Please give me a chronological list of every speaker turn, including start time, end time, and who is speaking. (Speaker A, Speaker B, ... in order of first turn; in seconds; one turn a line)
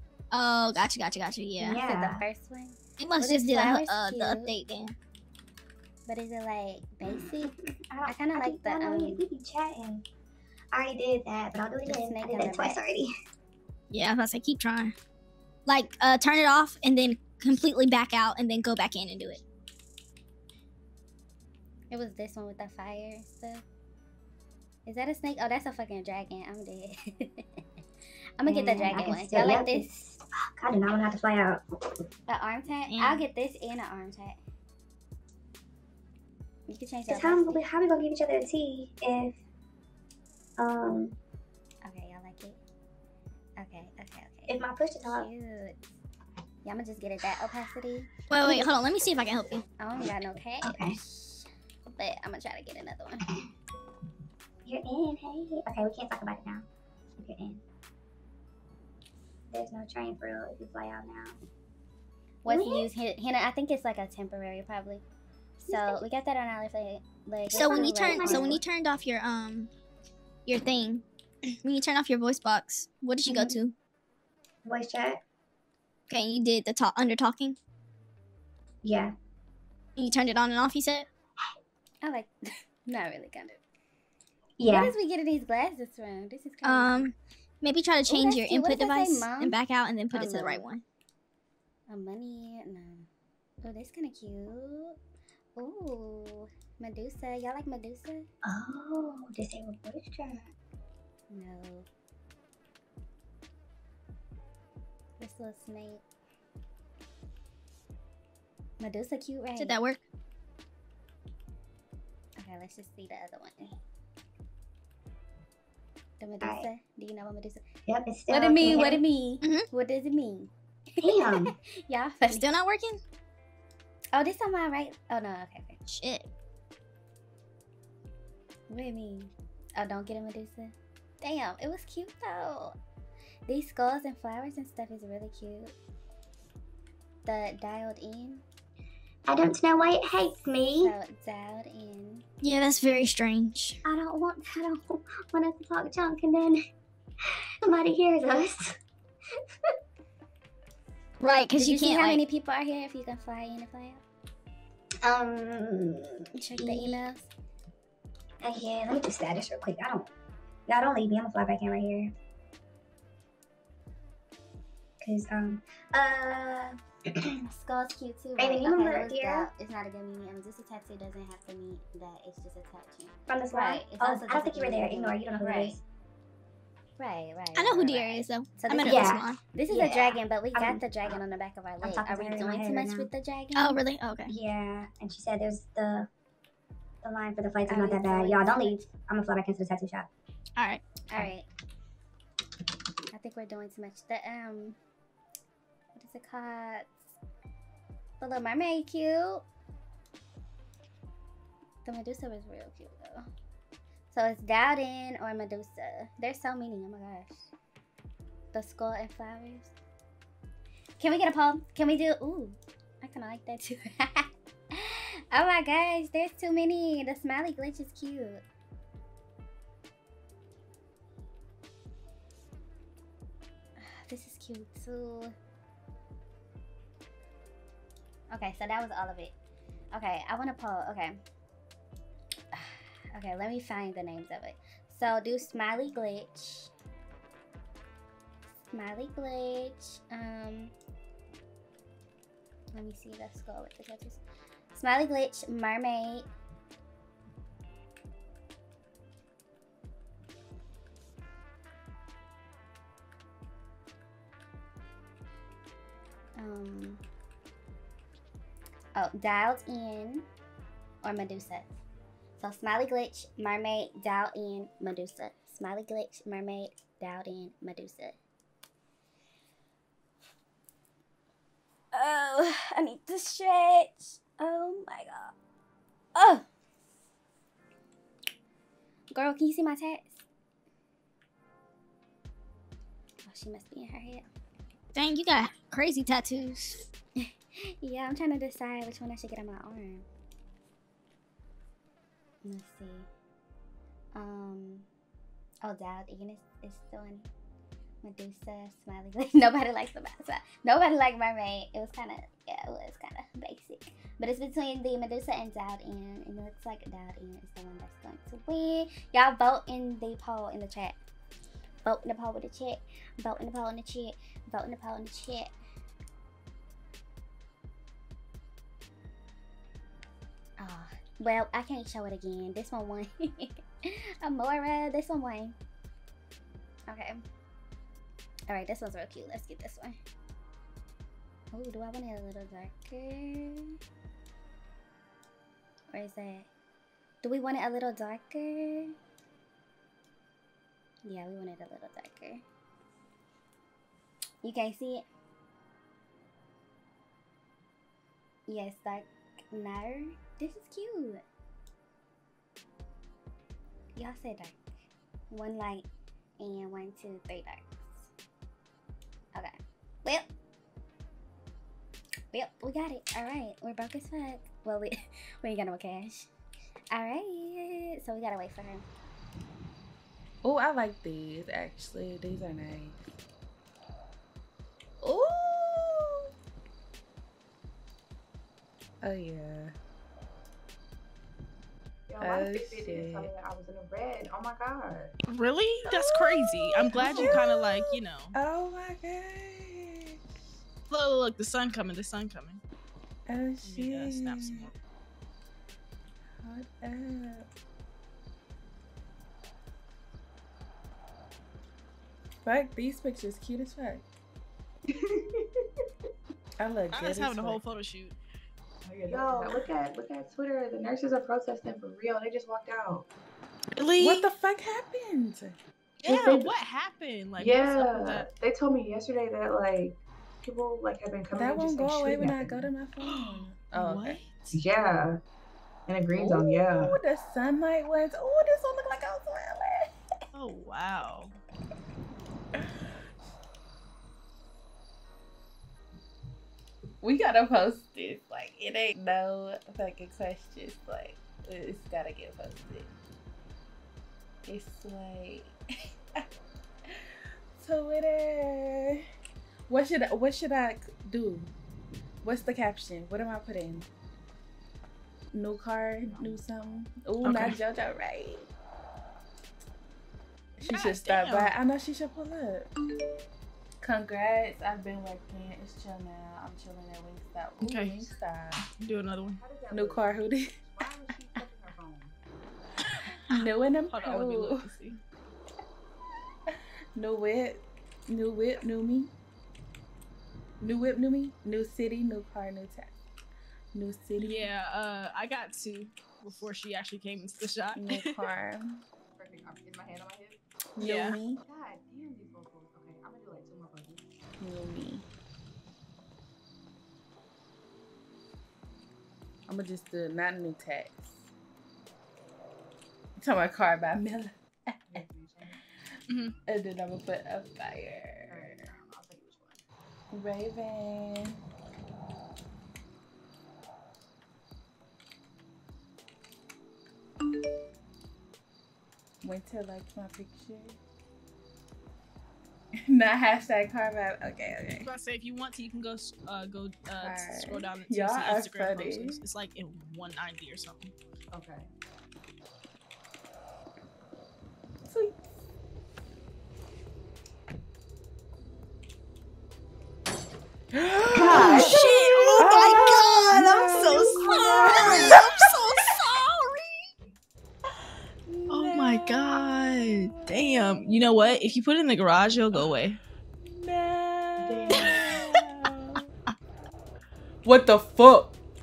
Speaker A: 0.3-1.8
Speaker B: 1.6-2.2
Speaker C: 1.6-4.5
Speaker A: 3.0-4.9
Speaker C: 6.1-7.5
Speaker B: 7.0-10.0
Speaker C: 8.1-9.2
Speaker B: 10.7-13.1
Speaker C: 11.8-12.8
Speaker A: 13.9-14.9
Speaker A: 15.7-19.4
Speaker C: 21.9-23.6
Speaker C: 24.9-27.4
Speaker C: 28.4-29.9
Speaker B: 28.4-31.6
Speaker C: 32.3-34.4
Speaker A: 32.9-33.3
Speaker C: 36.7-37.6
Speaker B: 37.1-39.4
Speaker B: 40.6-41.1
Speaker C: 41.8-42.6
Speaker C: 43.6-45.8
Speaker B: 44.5-45.3
Speaker C: 46.6-48.7
Speaker A: 48.3-49.6
Speaker C: 49.8-53.2
Speaker B: 50.6-51.0
Speaker B: 54.6-56.6
Speaker B: 57.2-57.6
Speaker B: 59.5-61.4
Speaker C: 62.4-65.0
Speaker B: 62.5-62.9
Speaker C: 65.6-68.6
Speaker B: 65.7-66.0
Speaker B: 67.5-68.6
Speaker A: 67.5-69.7
Speaker A: 70.5-71.0
Speaker A: 71.6-73.7
Speaker B: 74.6-75.2
Speaker A: 76.1-77.6
Speaker B: 78.8-79.1
Speaker A: 80.0-81.1
Speaker C: 82.0-82.3
Speaker C: 82.8-83.6
Speaker B: 84.6-85.0
Speaker C: 84.7-87.1
Speaker A: 86.6-90.8
Speaker C: 88.0-89.6
Speaker C: 90.1-90.6
Speaker C: 91.9-93.1
Speaker C: 93.6-95.0
Speaker C: 95.6-98.3
Speaker B: 98.4-100.5
Speaker C: 101.3-101.9
Speaker C: 105.2-106.0
Speaker C: 108.8-109.8
Speaker A: 109.5-110.0
Speaker C: 112.4-113.8
Speaker C: 116.2-117.6
Speaker B: 116.4-116.7
Speaker B: 117.9-119.0
Speaker C: 118.3-122.5
Speaker A: 119.4-119.7
Speaker B: 121.0-121.5
Speaker A: 122.3-123.0
Speaker C: 124.1-125.8
Speaker A: 125.9-126.3
Speaker C: 128.7-132.8
Speaker C: 133.5-135.7
Speaker C: 137.2-138.4
Speaker B: 139.3-140.9
Speaker C: 140.8-142.2
Speaker A: 142.4-143.8
Speaker B: 143.8-146.6
Speaker B: 147.6-148.7
Speaker A: 151.2-152.2
Speaker C: 151.5-154.0
Speaker B: 155.0-157.0
Speaker C: 156.4-157.3
Speaker B: 158.4-160.1
Speaker B: 160.7-162.1
Speaker B: 165.0-167.3
Speaker C: 167.5-175.8
Speaker B: 168.4-169.5
Speaker B: 173.3-175.8
Speaker C: 177.0-183.8
Speaker A: 177.5-179.4
Speaker B: 178.8-181.2
Speaker B: 181.8-183.1
Speaker A: 183.5-184.3
Speaker B: 184.3-186.1
Speaker B: 187.0-190.1
Speaker C: 187.7-188.8
Speaker A: 190.6-190.8
Speaker C: 191.1-191.4
Speaker C: 193.1-194.8
Speaker C: 195.9-196.9
Speaker C: 198.2-199.4
Speaker C: 201.8-203.2
Speaker C: 204.1-207.5
Speaker C: 208.5-209.7
Speaker C: 211.0-218.4
Speaker C: 223.8-225.3
Speaker C: 228.3-229.3
Speaker C: 229.9-231.2
Speaker C: 232.5-236.7
Speaker C: 238.7-240.7
Speaker C: 242.7-244.2
Speaker C: 244.7-246.3
Speaker C: 256.4-257.0
Speaker C: 258.9-260.3
Speaker C: 261.0-261.7
Speaker C: 262.4-268.2
Speaker C: 271.9-275.3
Speaker C: 276.1-276.4
Speaker C: 279.1-280.2
Speaker C: 283.2-284.2
Speaker A: 284.9-286.9
Speaker C: 287.8-290.1
Speaker C: 292.4-293.1
Speaker C: 294.1-294.9
Speaker C: 295.6-297.3
Speaker C: 298.0-310.9
Speaker C: 311.8-315.5
Speaker C: 320.6-325.6
Speaker C: 326.9-327.2
Speaker C: 328.5-330.0
Speaker C: 331.5-333.7
Speaker C: 335.9-336.5
Speaker C: 337.2-338.9
Speaker C: 341.0-342.4
Speaker C: 344.4-345.1
Speaker C: 348.5-351.2
Speaker C: 353.9-354.6
Speaker C: 355.3-355.9
Speaker C: 356.4-358.1
Speaker C: 359.3-360.3
Speaker C: 362.3-366.3
Speaker C: 366.9-368.8
Speaker D: 370.4-373.0
Speaker D: 375.0-376.2
Speaker D: 379.0-379.7
Speaker E: 382.1-385.1
Speaker D: 382.2-383.3
Speaker F: 385.3-388.3
Speaker D: 385.9-390.2
Speaker E: 386.9-387.4
Speaker F: 390.9-392.6
Speaker D: 393.3-394.7
Speaker F: 393.6-394.7
Speaker D: 396.4-397.4
Speaker D: 402.4-404.0
Speaker E: 404.9-405.6
Speaker D: 406.6-407.6
Speaker F: 406.9-408.2
Speaker E: 408.8-413.1
Speaker D: 409.1-409.6
Speaker F: 413.8-414.3
Speaker D: 414.0-415.6
Speaker F: 416.0-418.3
Speaker E: 416.1-416.5
Speaker E: 417.4-422.7
Speaker D: 421.3-424.2
Speaker F: 423.0-424.6
Speaker E: 424.5-425.2
Speaker E: 425.9-427.0
Speaker D: 426.1-429.9
Speaker F: 430.3-431.3
Speaker D: 437.0-442.9
Speaker D: 444.4-445.5
Speaker D: 447.6-449.0
Speaker D: 449.7-451.5
Speaker D: 452.2-453.9
Speaker D: 455.3-458.5
Speaker E: 456.0-456.8
Speaker F: 457.2-457.6
Speaker D: 460.6-462.7
Speaker F: 460.7-461.5
Speaker D: 463.8-468.7
Speaker F: 467.6-468.1
Speaker F: 468.8-469.4
Speaker E: 469.4-472.1
Speaker D: 469.7-470.6
Speaker D: 473.3-474.7
Speaker F: 473.3-475.0
Speaker D: 476.9-479.1
Speaker D: 480.6-483.0
Speaker D: 483.7-484.5
Speaker F: 484.2-488.2
Speaker D: 487.7-488.8
Speaker E: 489.1-490.4
Speaker D: 490.8-491.4
Speaker F: 490.8-491.2
Speaker E: 491.3-494.0
Speaker D: 494.4-495.1
Speaker D: 499.5-501.2
Speaker D: 503.2-505.0
Speaker E: 504.9-505.6
Speaker F: 506.1-506.3
Speaker D: 506.4-508.7
Speaker E: 508.3-509.6
Speaker D: 510.1-511.4
Speaker D: 519.2-520.8
Speaker D: 522.9-524.9
Speaker F: 524.8-530.9
Speaker D: 527.0-529.2
Speaker E: 531.3-531.7
Speaker D: 534.9-535.2
Speaker D: 540.7-541.8
Speaker E: 541.1-543.0
Speaker F: 541.2-546.7
Speaker D: 542.4-545.4
Speaker D: 548.3-550.9
Speaker F: 548.5-553.0
Speaker D: 553.4-556.0
Speaker E: 554.4-555.2
Speaker F: 554.7-555.4
Speaker D: 557.4-558.3